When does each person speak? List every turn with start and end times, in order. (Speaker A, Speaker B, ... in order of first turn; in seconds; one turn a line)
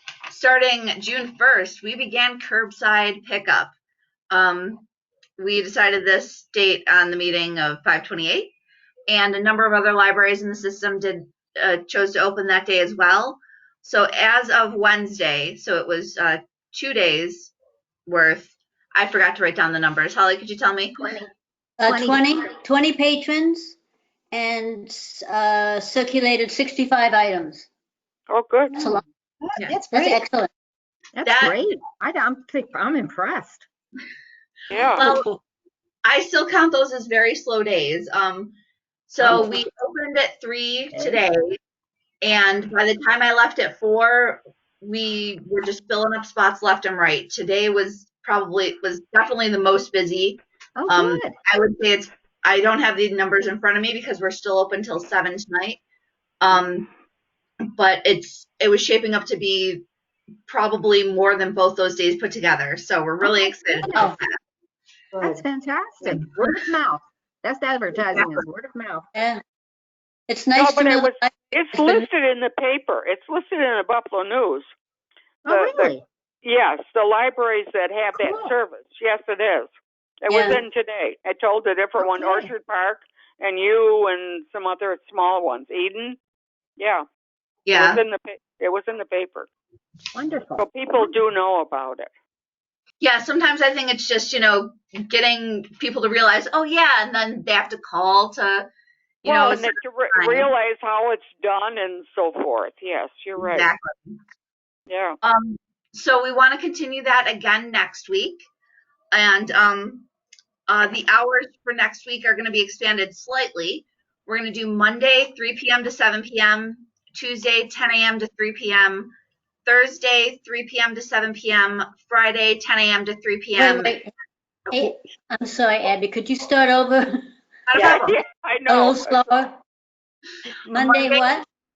Speaker A: 0.3-3.7
Speaker A: 4.3-4.8
Speaker A: 5.4-8.5
Speaker A: 9.1-17.5
Speaker A: 18.1-21.1
Speaker B: 21.8-23.8
Speaker C: 21.9-22.3
Speaker B: 24.3-27.7
Speaker D: 28.3-28.7
Speaker C: 28.7-30.2
Speaker B: 28.7-29.0
Speaker B: 29.9-30.5
Speaker C: 31.1-33.6
Speaker A: 31.2-31.6
Speaker D: 34.7-35.0
Speaker A: 35.0-35.2
Speaker A: 36.0-38.5
Speaker A: 39.1-41.6
Speaker C: 39.2-39.5
Speaker C: 40.9-41.2
Speaker A: 42.2-55.8
Speaker C: 50.8-51.4
Speaker A: 56.4-56.9
Speaker A: 57.7-59.8
Speaker A: 60.5-64.4
Speaker C: 63.2-64.2
Speaker C: 65.2-69.1
Speaker A: 66.0-66.6
Speaker A: 67.9-68.5
Speaker B: 69.1-69.4
Speaker B: 70.3-72.1
Speaker D: 70.5-74.7
Speaker C: 75.4-76.0
Speaker D: 75.5-86.2
Speaker C: 78.1-78.5
Speaker B: 80.3-80.6
Speaker C: 82.0-82.5
Speaker D: 86.8-87.0
Speaker A: 87.7-88.0
Speaker D: 87.7-89.5
Speaker C: 90.1-91.0
Speaker D: 90.6-92.1
Speaker A: 93.0-98.7
Speaker A: 99.2-100.5
Speaker D: 99.2-103.7
Speaker A: 103.4-104.2
Speaker D: 104.9-105.2
Speaker A: 105.2-108.4
Speaker A: 109.1-110.1
Speaker A: 110.7-119.1
Speaker A: 119.6-124.0
Speaker B: 123.5-124.1
Speaker B: 124.7-127.1
Speaker A: 127.7-128.2
Speaker D: 127.7-129.2
Speaker B: 128.7-129.6
Speaker B: 130.6-131.4
Speaker A: 130.8-131.3